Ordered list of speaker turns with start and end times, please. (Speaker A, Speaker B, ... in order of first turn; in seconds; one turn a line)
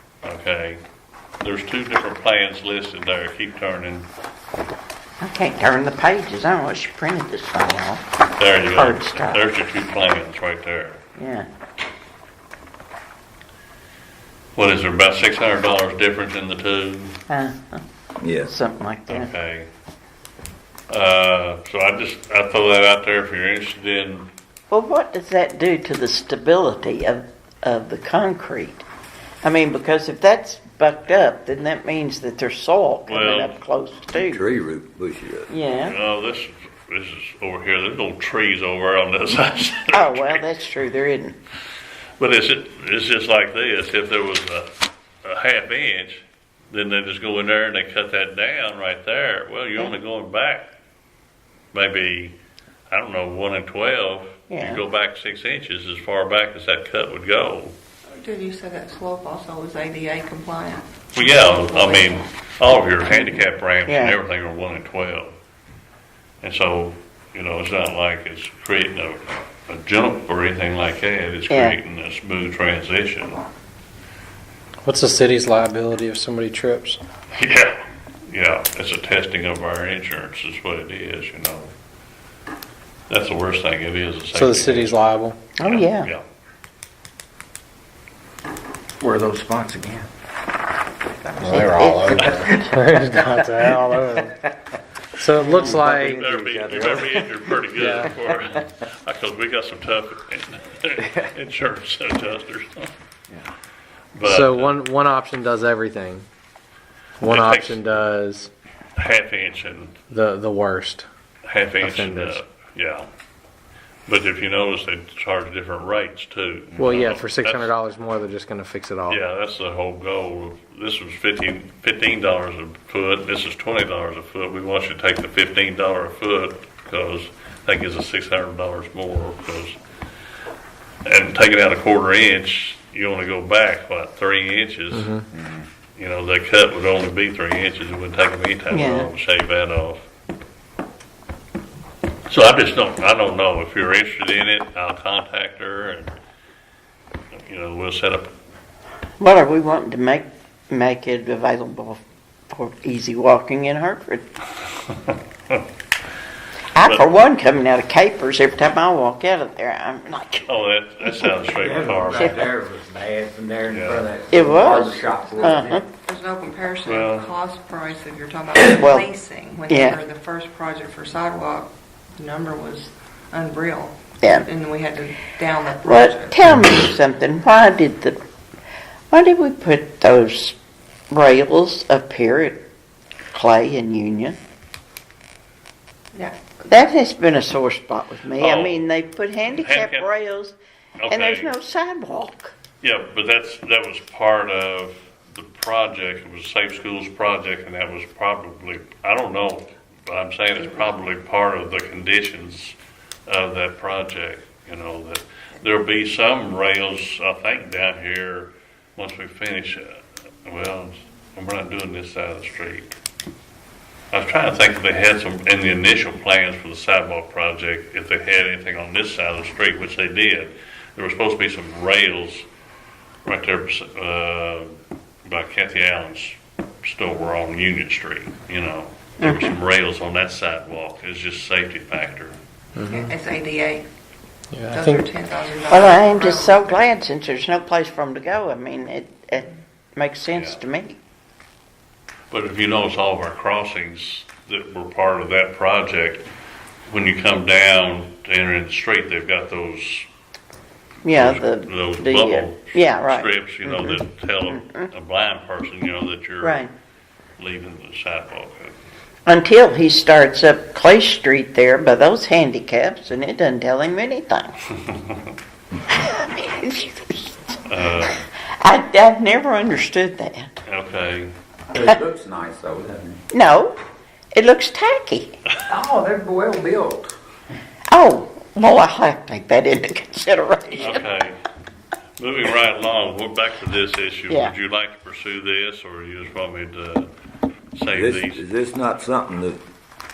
Speaker A: 0.2-0.8
Speaker A: 1.4-4.1
Speaker B: 5.2-8.0
Speaker A: 8.4-11.0
Speaker B: 8.8-9.4
Speaker B: 11.2-11.5
Speaker A: 14.6-17.2
Speaker B: 17.3-17.8
Speaker C: 18.2-18.5
Speaker B: 18.4-19.3
Speaker A: 19.1-19.7
Speaker A: 20.9-24.3
Speaker B: 24.7-28.8
Speaker B: 29.4-34.4
Speaker A: 33.1-33.6
Speaker C: 34.1-35.5
Speaker B: 35.5-36.0
Speaker A: 35.9-40.4
Speaker B: 39.9-41.4
Speaker A: 42.2-44.7
Speaker A: 45.2-50.7
Speaker A: 51.7-52.4
Speaker A: 52.9-57.8
Speaker B: 54.5-54.8
Speaker D: 58.2-62.2
Speaker A: 61.1-65.3
Speaker B: 63.9-64.2
Speaker A: 66.4-73.4
Speaker B: 71.5-71.8
Speaker E: 74.8-77.0
Speaker A: 77.3-81.7
Speaker A: 83.1-85.0
Speaker E: 84.3-85.4
Speaker B: 85.6-86.1
Speaker A: 85.6-86.2
Speaker F: 89.0-90.1
Speaker F: 91.3-91.6
Speaker B: 91.4-92.8
Speaker E: 91.4-94.4
Speaker E: 95.2-96.2
Speaker C: 95.7-96.7
Speaker A: 96.0-102.9
Speaker F: 96.5-97.2
Speaker E: 97.8-98.1
Speaker A: 104.1-104.8
Speaker E: 104.2-106.3
Speaker E: 107.2-108.5
Speaker A: 107.3-108.0
Speaker A: 109.0-110.0
Speaker E: 110.1-111.1
Speaker A: 111.5-113.1
Speaker E: 111.8-112.4
Speaker A: 114.1-117.7
Speaker E: 116.8-119.2
Speaker A: 119.1-129.8
Speaker A: 131.1-135.1
Speaker E: 134.9-135.3
Speaker A: 136.0-140.1
Speaker B: 138.7-139.1
Speaker A: 142.3-146.2
Speaker A: 147.3-148.3
Speaker B: 149.2-154.2
Speaker A: 154.9-155.6
Speaker B: 156.8-160.5
Speaker A: 156.8-157.1
Speaker A: 160.5-162.5
Speaker B: 161.1-161.3
Speaker F: 161.6-165.8
Speaker B: 162.1-162.5
Speaker A: 163.7-164.1
Speaker B: 164.3-165.8
Speaker D: 166.1-176.4
Speaker A: 166.9-167.3
Speaker B: 168.8-169.1
Speaker B: 169.7-170.0
Speaker B: 174.2-174.5
Speaker B: 175.8-178.2
Speaker B: 179.1-180.6
Speaker B: 181.1-182.7
Speaker B: 183.3-184.4
Speaker B: 186.7-190.6
Speaker A: 188.4-188.9
Speaker A: 189.5-190.1
Speaker A: 191.0-191.5
Speaker B: 191.1-192.5
Speaker A: 192.8-202.8
Speaker A: 203.3-212.9
Speaker A: 214.1-222.5
Speaker A: 223.2-224.7
Speaker A: 225.3-232.4
Speaker B: 229.2-229.5
Speaker E: 232.8-233.1
Speaker D: 232.8-233.9
Speaker E: 234.5-235.0
Speaker D: 234.7-236.8
Speaker B: 235.7-241.0
Speaker A: 240.3-240.6
Speaker A: 242.3-246.3
Speaker A: 246.9-250.1
Speaker B: 251.0-254.9
Speaker A: 251.1-256.6
Speaker B: 256.4-256.7
Speaker A: 257.4-258.7
Speaker B: 259.3-264.6
Speaker A: 264.9-265.1
Speaker B: 265.9-268.1
Speaker A: 267.7-268.2
Speaker B: 268.6-270.6
Speaker A: 270.7-271.3
Speaker F: 271.9-273.2
Speaker B: 273.3-273.8
Speaker B: 274.3-275.4
Speaker F: 275.7-277.1
Speaker B: 277.9-281.1
Speaker A: 280.7-281.4
Speaker A: 282.2-287.1
Speaker B: 284.3-284.5
Speaker A: 287.8-288.4
Speaker C: 287.9-289.6